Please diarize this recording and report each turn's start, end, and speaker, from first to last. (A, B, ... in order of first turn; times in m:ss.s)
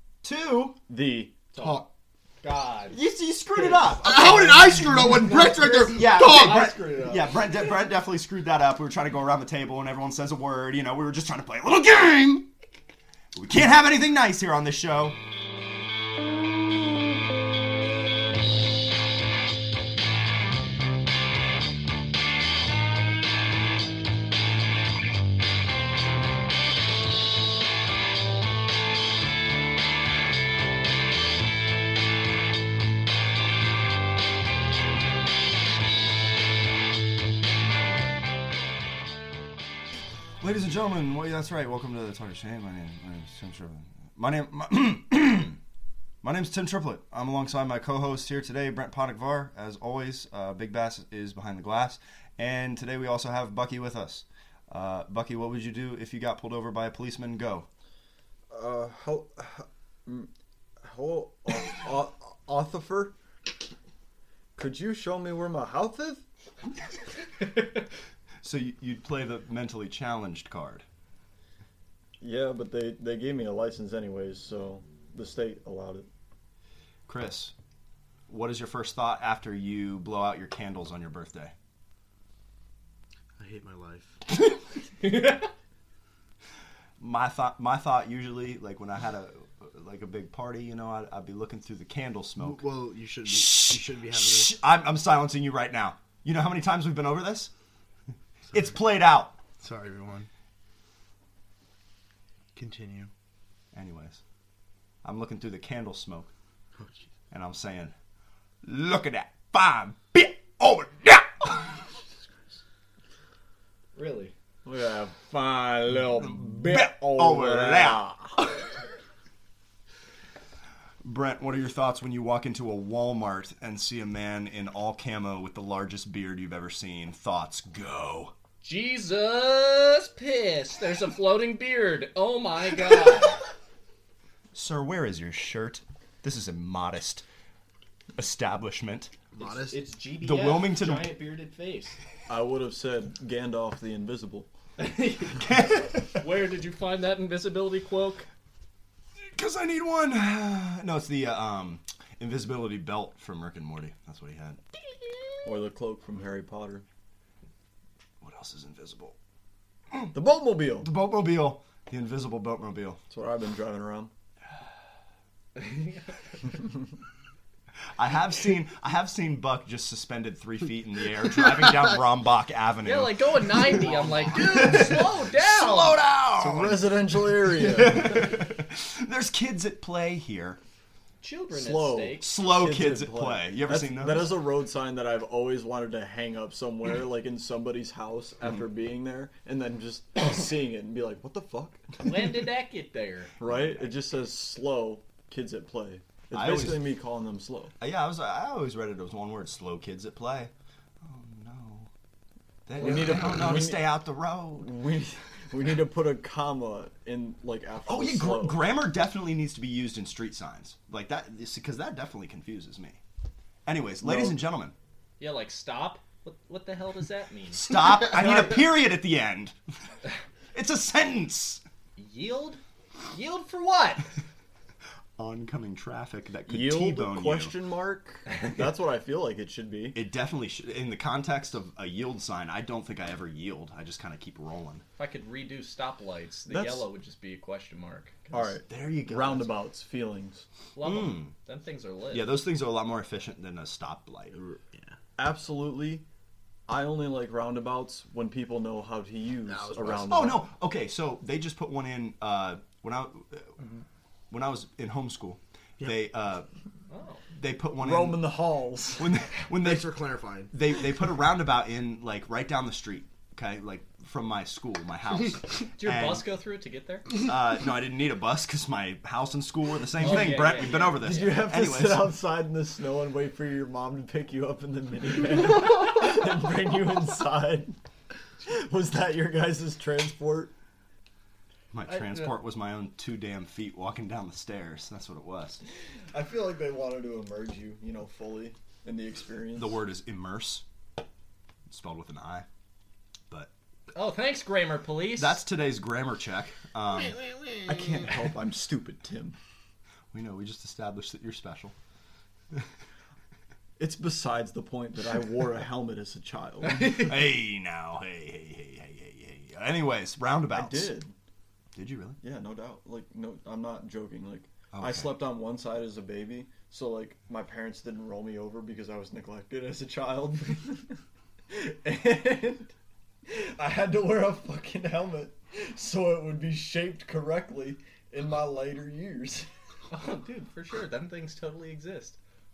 0:00.2-0:00.8 A
0:00.9-0:01.5 B
0:01.5-0:01.8 C
0:01.6-0:01.9 D
0:02.4-0:03.0 C
0:02.9-0:05.2 A
0:03.7-0:07.3 C
0:04.0-0:06.8 D
0:05.9-0:12.5 A
0:13.3-0:15.2 A
0:40.4-0:45.6 A
0:46.2-0:57.7 A
0:58.5-1:03.1 B
1:04.6-1:06.2 B
1:08.4-1:10.8 A
1:12.2-1:16.1 B
1:17.1-1:17.5 A
1:18.3-1:21.5 A
1:23.4-1:24.2 D
1:25.0-1:25.5 C
1:27.0-1:32.6 A
1:32.4-1:34.5 D
1:33.2-1:37.5 A
1:38.5-1:38.8 D
1:38.5-1:39.4 A
1:39.6-1:40.3 D
1:42.5-1:43.1 D
1:43.7-1:44.2 A
1:45.0-1:46.3 A
1:47.3-1:47.9 A
1:48.6-1:51.7 A
1:54.0-1:54.3 C
1:54.6-1:58.3 B
1:56.2-1:58.6 A
2:01.0-2:08.3 A
2:08.6-2:13.4 C
2:14.5-2:17.2 A
2:18.2-2:19.1 A
2:19.3-2:19.8 D
2:19.4-2:22.0 C
2:20.2-2:21.1 A
2:22.3-2:24.5 B
2:24.8-2:25.5 C
2:25.4-2:26.1 A
2:26.0-2:28.3 C
2:29.2-2:34.6 A
2:35.4-2:36.8 B
2:38.2-2:39.2 A
2:40.1-2:40.9 B
2:40.8-2:43.0 A
2:43.1-2:44.1 B
2:45.6-2:46.4 C
2:47.9-2:55.1 A
2:52.8-2:56.0 C
2:53.6-2:56.8 D
2:55.7-2:56.8 A
2:56.4-2:58.2 B
2:57.6-3:00.6 A
3:01.2-3:02.3 C
3:01.5-3:12.2 B
3:02.2-3:04.4 A
3:12.0-3:13.3 C
3:13.4-3:17.7 B
3:13.4-3:13.9 A
3:16.3-3:16.9 A
3:17.8-3:20.5 A
3:21.0-3:21.9 A
3:22.6-3:24.8 A
3:22.8-3:24.0 B
3:24.5-3:28.6 B
3:27.8-3:33.0 A
3:33.6-3:34.7 A
3:34.0-3:34.4 B
3:35.2-3:37.6 C
3:37.5-3:39.6 A
3:40.5-3:41.6 A
3:42.0-3:44.1 C
3:45.2-3:47.6 A
3:46.5-3:50.0 B
3:49.9-3:54.8 A
3:55.0-3:58.6 C
3:56.5-3:56.9 B
3:58.3-4:00.4 B
3:58.7-3:59.5 A
4:00.7-4:02.4 C
4:00.8-4:01.3 A
4:02.1-4:04.3 A
4:04.3-4:04.9 D
4:05.2-4:06.0 B
4:06.7-4:10.4 B
4:09.4-4:10.3 D
4:10.0-4:13.5 A
4:14.3-4:16.5 A
4:16.9-4:17.2 C
4:17.4-4:18.4 A
4:17.8-4:19.1 B
4:19.0-4:19.9 A
4:19.5-4:20.5 D
4:20.5-4:26.3 A
4:25.8-4:27.1 C
4:27.2-4:32.1 A
4:30.0-4:37.8 B
4:30.0-4:31.4 C
4:38.4-4:40.5 B
4:41.7-4:45.6 A
4:41.9-4:42.3 C
4:46.1-4:49.8 B
4:49.5-4:50.6 A
4:51.7-4:52.4 A
4:53.9-4:55.4 C
4:55.2-4:57.2 A
4:57.6-4:59.4 B
5:00.1-5:01.7 A
5:03.8-5:07.0 B
5:06.6-5:11.0 A
5:10.5-5:11.1 B
5:11.7-5:12.2 A
5:12.2-5:21.0 B
5:14.7-5:15.2 A
5:21.5-5:22.7 B
5:23.3-5:29.5 B
5:29.9-5:32.2 C